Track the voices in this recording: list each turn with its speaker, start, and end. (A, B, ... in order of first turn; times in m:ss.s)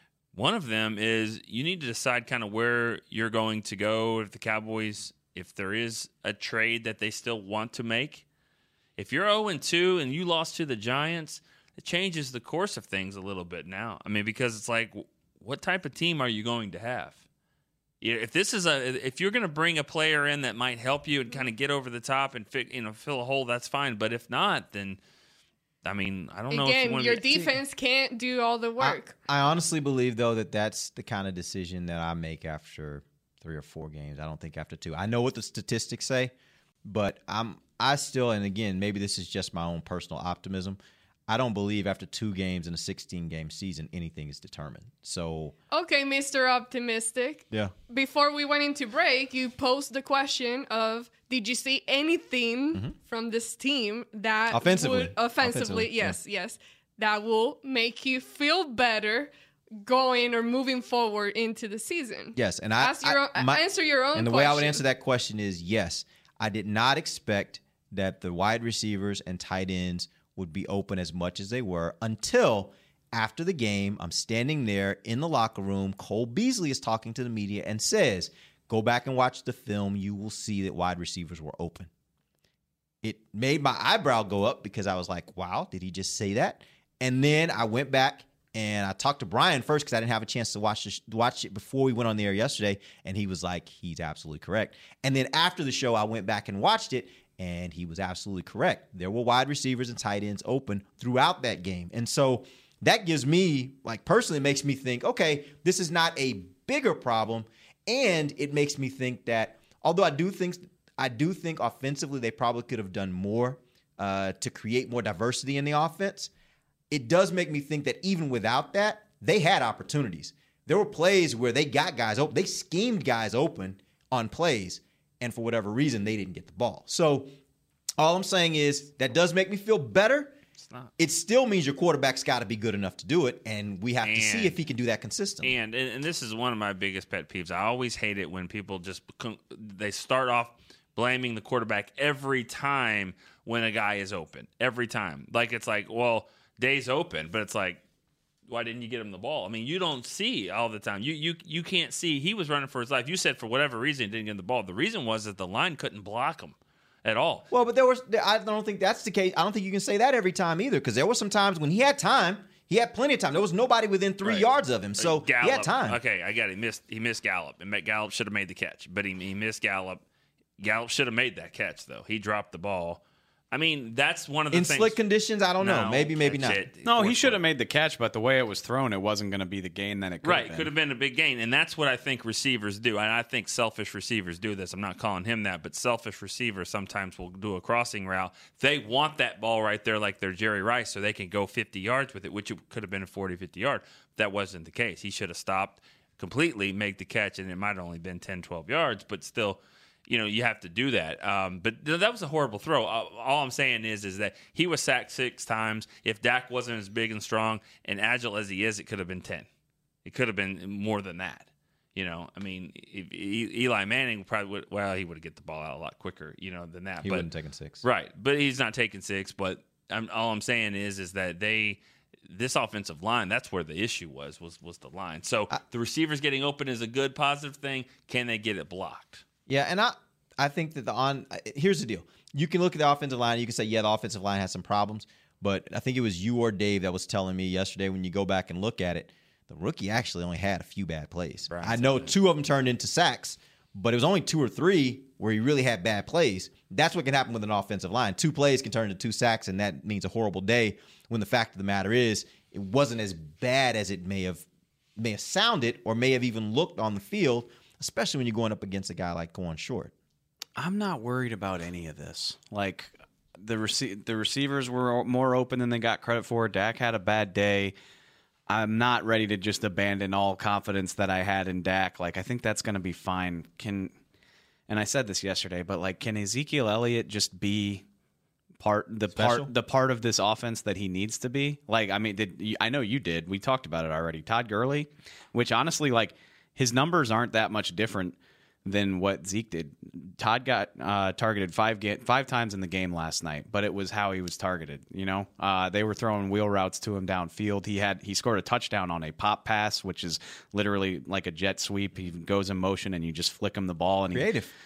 0:00.3-0:08.2 A
0:09.0-0:17.2 A
0:18.0-0:25.0 A
0:25.8-0:27.5 A
0:26.5-0:29.1 B
0:28.8-0:45.5 C
0:45.7-1:04.8 B
0:54.5-0:56.2 C
1:02.3-1:21.9 C
1:23.0-1:56.3 C
1:56.9-2:07.3 C
2:08.0-2:10.4 C
2:11.0-2:15.6 C
2:14.0-2:14.6 A
2:15.4-2:27.8 A
2:28.5-2:37.4 A
2:37.5-2:46.0 C
2:45.0-2:50.0 A
2:50.6-2:53.0 A
2:53.5-2:55.0 A
2:54.5-2:56.6 C
2:55.6-2:57.4 A
2:56.8-3:00.7 D
3:00.2-3:29.5 A
3:30.0-3:37.3 A
3:37.0-3:37.8 C
3:37.8-3:49.2 A
3:49.5-4:14.4 C
4:01.5-4:02.1 A
4:15.0-4:19.9 C
4:20.6-4:27.7 D
4:28.5-4:33.9 D
4:34.7-4:37.8 D
4:38.6-5:04.3 D
4:39.1-4:39.5 C
5:04.1-5:04.5 C